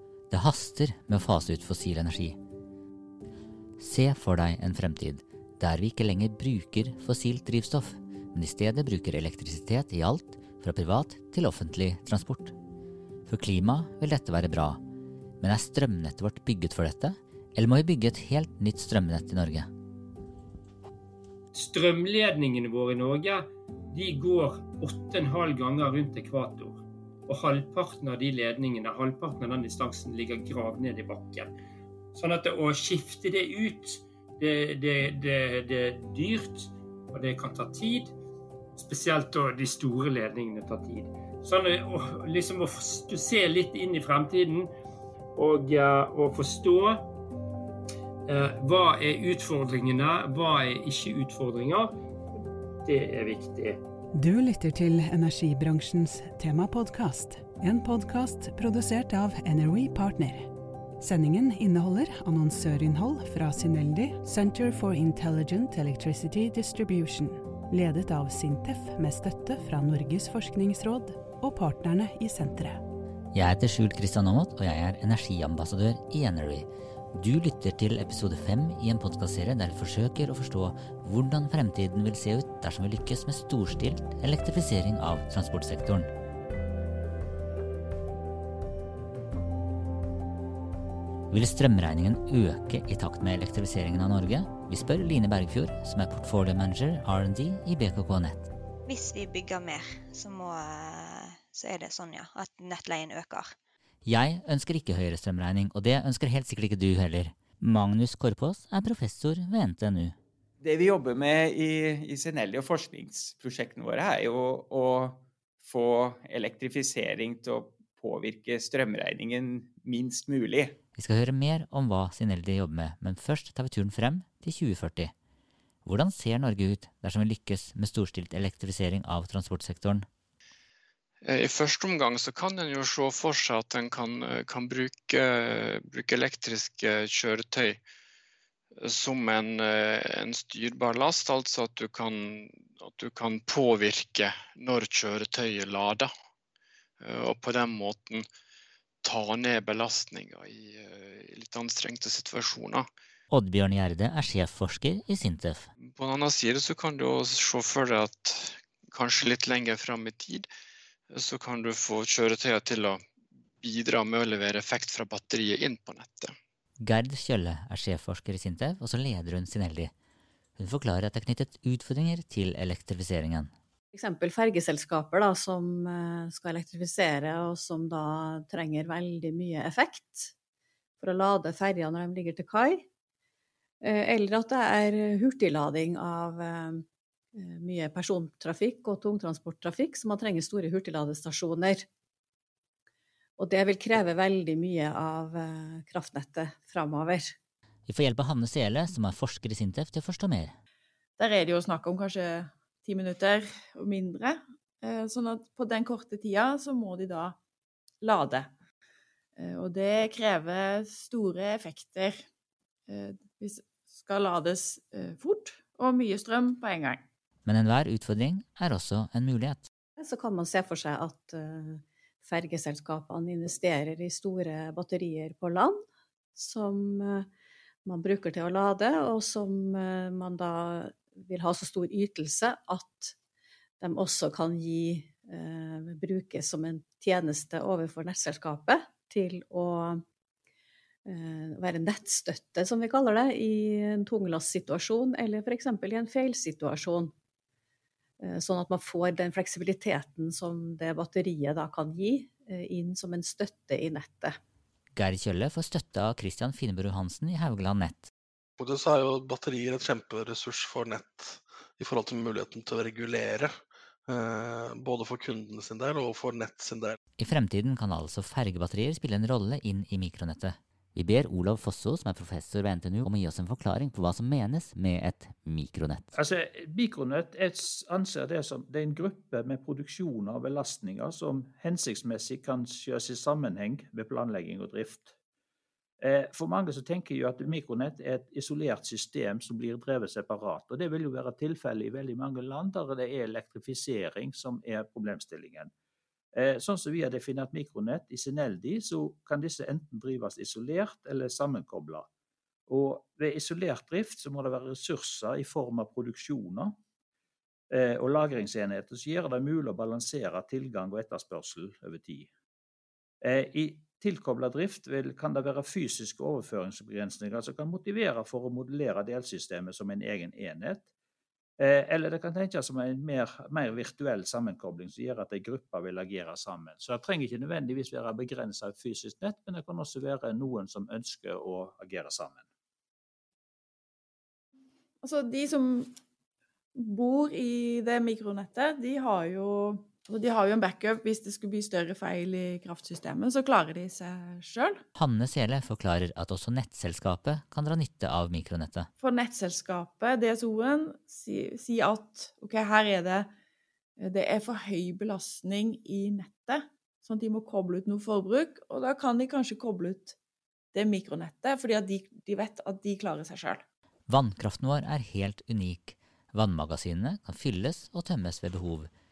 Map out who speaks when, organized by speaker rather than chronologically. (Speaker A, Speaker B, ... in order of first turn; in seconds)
Speaker A: 0.3-2.4, 3.8-12.5, 13.3-14.8, 15.4-19.7, 73.3-86.1, 91.3-98.5, 104.0-110.2, 121.0-125.1, 125.8-130.1, 153.3-155.7, 166.8-169.9, 170.6-173.5, 197.9-200.5, 217.4-219.7, 254.9-258.1, 267.2-276.1, 344.9-348.9, 364.1-368.9
Speaker B: 21.5-31.5, 32.1-38.1, 38.8-44.7, 45.4-47.1, 48.3-52.0, 52.8-53.8
Speaker C: 54.2-60.5, 61.0-72.8
Speaker D: 98.9-103.5
Speaker E: 110.6-120.8, 136.0-137.2, 145.2-145.6, 151.5-152.8, 163.9-166.2
Speaker F: 131.3-137.8, 139.0-146.1, 147.0-148.2, 149.1-152.8, 155.9-158.4, 158.9-160.4, 161.3-163.0, 163.6-164.9, 165.9-166.2
Speaker G: 173.9-180.3, 181.0-182.8, 183.8-186.8, 187.4-191.8, 193.4-197.3, 220.0-225.8, 226.3-227.2, 227.8-233.1, 233.8-240.0, 241.1-247.1, 248.2-254.3
Speaker H: 201.2-207.3, 208.0-208.5, 209.4-212.2, 212.9-217.0, 335.0-335.9, 336.7-344.8, 349.0-353.3, 354.0-360.1, 360.7-363.6
Speaker I: 258.6-267.0
Speaker J: 276.1-285.1, 286.0-295.7, 296.3-302.1, 302.7-306.8, 307.7-312.3, 313.2-320.9, 321.6-332.4